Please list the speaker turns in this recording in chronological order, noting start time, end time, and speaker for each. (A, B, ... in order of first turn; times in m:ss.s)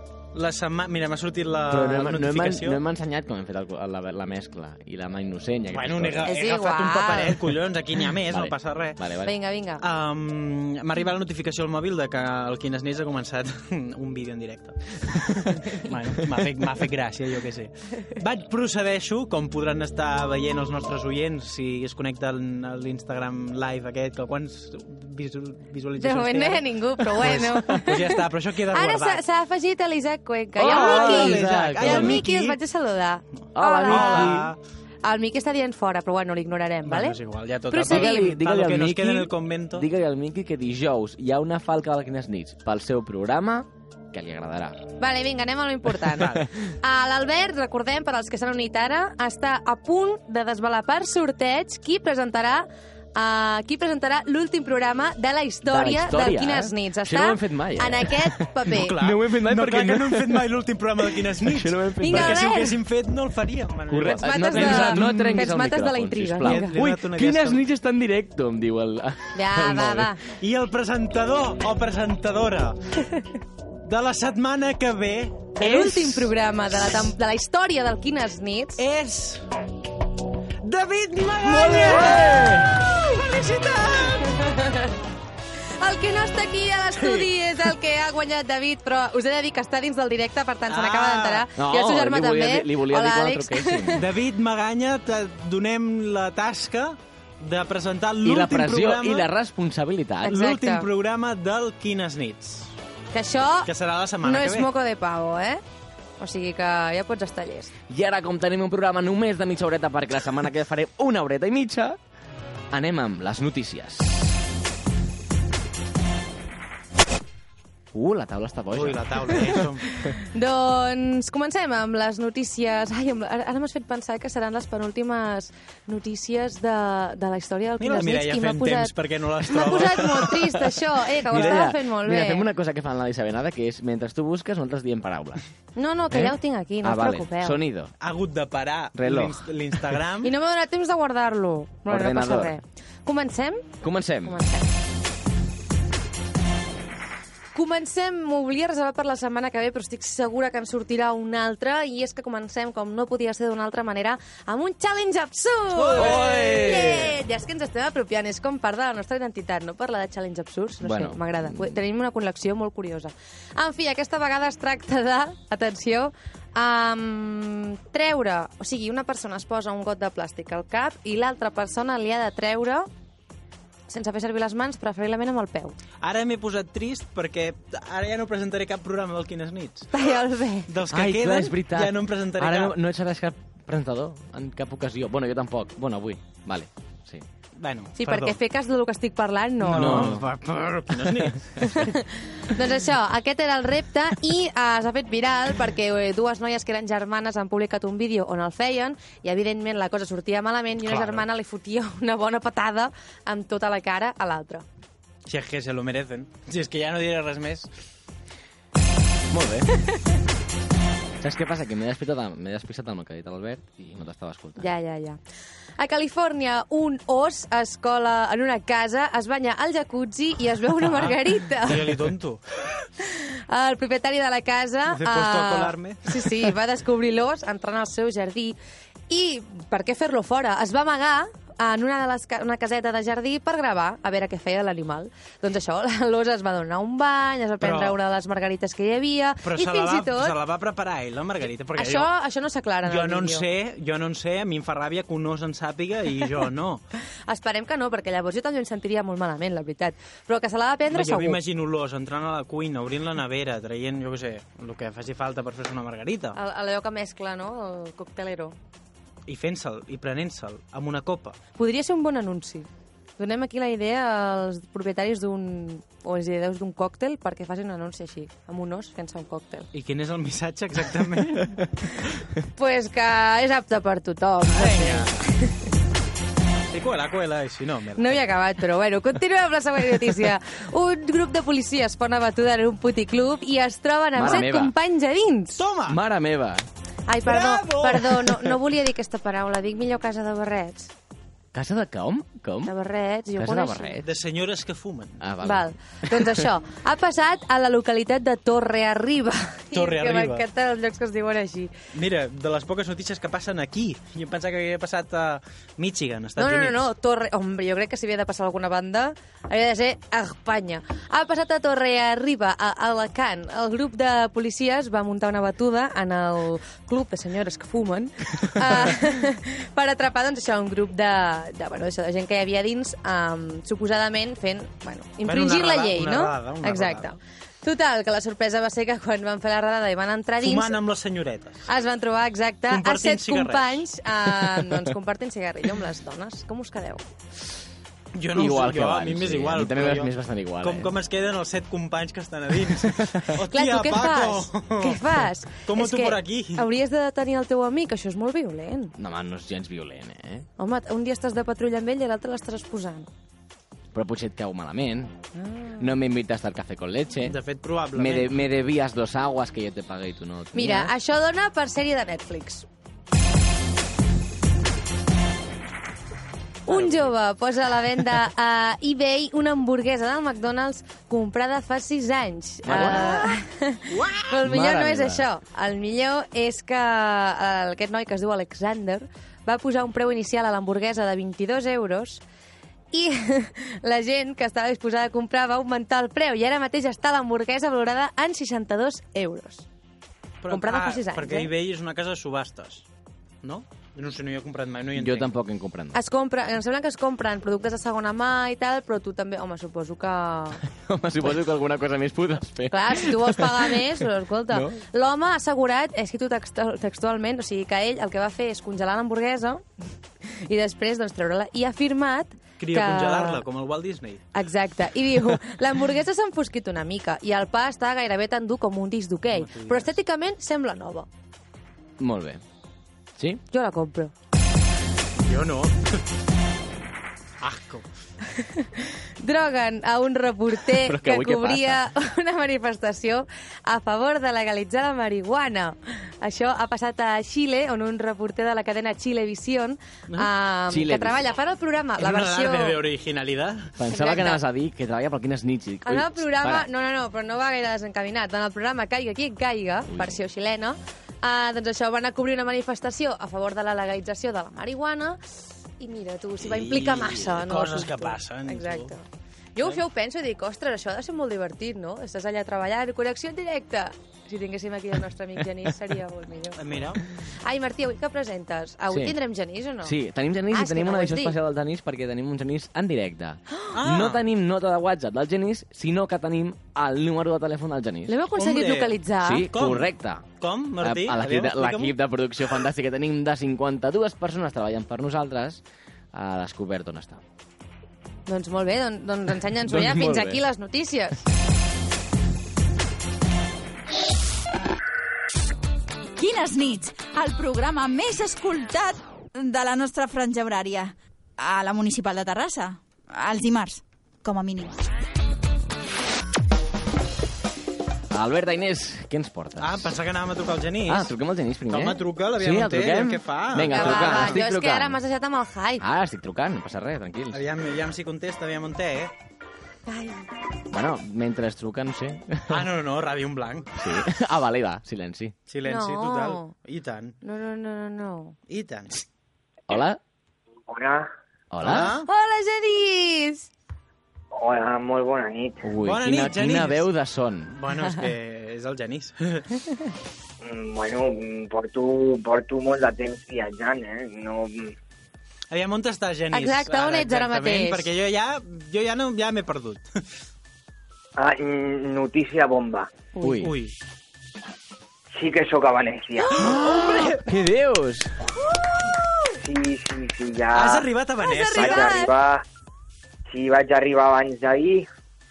0:00.3-0:02.8 A
0:01.7-0:06.3 B
0:05.7-0:09.0 A
0:06.3-0:07.4 C
0:08.2-0:09.3 B
0:09.2-0:09.8 C
0:09.8-0:29.2 A
0:26.0-0:28.2 C
0:28.7-0:34.4 C
0:30.6-0:32.2 B
0:30.6-0:32.6 A
0:33.5-0:34.5 B
0:33.8-0:34.6 A
0:35.0-0:37.2 C
0:36.8-0:39.8 A
0:37.7-0:38.3 C
0:37.8-0:44.8 B
0:45.0-0:58.9 C
0:46.2-0:46.4 A
0:55.6-0:58.3 B
0:58.6-1:05.4 A
0:58.9-1:00.5 B
1:01.2-1:02.5 B
1:02.0-1:02.8 C
1:03.9-1:10.1 B
1:04.2-1:06.8 C
1:06.4-1:07.6 A
1:09.3-1:10.2 C
1:10.3-1:13.0 A
1:13.8-1:16.3 A
1:15.6-1:18.8 C
1:18.8-1:19.4 A
1:20.6-1:24.3 A
1:21.4-1:22.8 B
1:24.3-1:24.9 C
1:25.8-1:34.0 C
1:27.0-1:27.3 A
1:30.7-1:31.4 A
1:31.6-1:34.0 B
1:34.0-1:39.3 A
1:38.2-1:40.4 B
1:40.2-1:40.8 C
1:40.3-1:42.7 A
1:43.1-1:43.7 C
1:43.6-1:44.7 A
1:44.2-1:45.6 C
1:46.2-1:47.7 C
1:47.9-1:52.0 B
1:52.7-1:54.4 B
1:57.9-1:59.6 B
1:58.7-1:59.9 A
2:00.2-2:08.9 C
2:07.8-2:10.3 A
2:09.4-2:12.4 C
2:10.4-2:15.4 B
2:11.3-2:11.7 A
2:15.8-2:17.6 C
2:16.1-2:17.9 B
2:18.0-2:20.3 A
2:19.0-2:19.5 B
2:20.2-2:23.7 C
2:21.8-2:22.5 B
2:23.8-2:24.4 B
2:24.2-2:24.6 C
2:27.5-2:52.9 C
2:35.8-2:36.8 A
2:35.9-2:37.2 B
2:40.8-2:41.8 B
2:53.9-2:55.8 C
2:56.0-3:00.1 A
2:59.9-3:00.7 C
3:00.7-3:02.8 A
3:00.9-3:07.2 B
3:07.6-3:08.4 A
3:08.0-3:10.1 C
3:09.6-3:11.9 A
3:09.7-3:10.3 B
3:11.6-3:24.6 C
3:20.8-3:21.2 A
3:25.2-3:27.7 A
3:29.3-3:29.7 B
3:31.2-3:34.7 B
3:34.6-3:35.2 C
3:35.8-3:42.0 C
3:40.8-3:42.4 A
3:43.0-3:48.6 C
3:44.9-3:46.5 A
3:49.1-4:00.4 C
3:57.6-3:58.0 A
3:59.4-4:02.1 A
4:01.8-4:03.4 C
4:02.8-4:06.8 A
4:07.3-4:11.4 C
4:10.9-4:16.4 A
4:16.3-4:18.5 C
4:19.3-4:21.4 A
4:21.6-4:29.7 C
4:29.7-4:31.7 A
4:32.5-4:35.5 C
4:34.5-4:35.3 A
4:36.7-4:38.3 A
4:38.0-4:45.6 C
4:44.1-4:44.7 B
4:45.6-4:46.0 A
4:45.9-4:46.7 B
4:47.1-4:50.9 C
4:47.2-4:48.3 A
4:51.5-4:52.7 B
4:52.6-4:54.0 C
4:53.4-4:54.1 B
4:54.0-4:55.2 A
4:55.2-4:56.4 B
4:55.4-5:01.7 C
4:59.7-5:00.4 A
5:01.9-5:06.8 A
5:06.4-5:30.8 C
5:25.2-5:27.1 A
5:30.4-5:31.6 A
5:31.7-5:37.1 C
5:32.7-5:33.8 A
5:34.4-5:34.7 B
5:38.2-5:46.7 A
5:38.3-5:40.9 B
5:42.8-5:43.2 B
5:43.5-5:48.9 C
5:49.0-5:50.5 B
5:50.6-5:53.1 C
5:53.9-5:55.1 B
5:55.3-5:55.9 C
5:55.8-5:57.4 B
5:57.2-5:58.4 A
5:57.9-6:00.9 B
6:00.5-6:02.6 C
6:06.7-6:22.2 C
6:12.6-6:13.3 B
6:14.4-6:15.3 B
6:22.9-6:29.7 C
6:30.4-6:32.8 A
6:30.5-6:31.5 C
6:33.4-6:35.3 A
6:35.0-6:36.0 B
6:35.9-6:40.6 C
6:40.8-6:44.8 B
6:42.7-6:49.6 C
6:50.2-6:53.4 C
6:52.6-6:54.3 A
6:54.3-7:01.1 C
6:59.3-7:00.0 A
7:02.0-7:02.4 B
7:03.2-7:03.4 B
7:03.5-7:04.1 C
7:05.2-7:06.0 A
7:07.4-7:07.9 A
7:08.3-7:22.8 C
7:10.7-7:11.8 B
7:20.7-7:21.2 B
7:22.0-7:23.8 A
7:23.8-7:26.7 B
7:23.9-7:24.4 C
7:25.8-7:35.2 C
7:29.9-7:30.2 B
7:35.8-7:39.0 C
7:36.4-7:38.9 A
7:39.6-7:50.0 C
7:46.6-7:47.0 A
7:48.9-7:49.2 B
7:49.8-7:58.1 B
7:50.5-7:51.4 C
7:53.7-7:54.2 A
7:58.1-7:59.5 C
7:58.4-7:59.0 A
7:59.2-8:05.6 B
7:59.5-8:01.9 A
8:06.1-8:07.2 B
8:08.3-8:11.2 C
8:09.6-8:10.4 B
8:16.2-8:24.8 D
8:28.1-8:30.0 B
8:29.6-8:31.1 A
8:30.9-8:35.0 B
8:31.7-8:34.4 A
8:33.6-8:35.8 C
8:35.8-8:37.4 B
8:37.3-8:39.1 A
8:39.9-8:40.3 C
8:40.7-8:42.7 B
8:42.5-8:43.7 A
8:43.8-8:45.3 B
8:45.5-8:47.2 A
8:45.6-8:46.5 C
8:47.2-8:48.3 C
8:48.5-8:49.0 A
8:49.7-8:50.0 B
8:50.7-8:51.1 E
8:51.5-8:52.0 B
8:51.6-8:52.1 A
8:51.7-8:53.5 C
8:54.3-8:55.6 E
8:55.6-8:57.6 B
8:55.8-8:56.8 A
8:57.5-8:59.5 A
9:00.4-9:04.7 E
9:05.5-9:10.0 A
9:06.3-9:07.9 C
9:11.2-9:12.9 E
9:13.1-9:13.4 C
9:13.2-9:13.5 B
9:13.4-9:13.7 A
9:15.1-9:16.5 E
9:16.4-9:18.3 B
9:16.4-9:17.1 C
9:16.5-9:17.2 A
9:19.4-9:20.9 E
9:20.5-9:21.9 A
9:21.2-9:22.1 C
9:21.5-9:22.4 E
9:23.3-9:24.9 E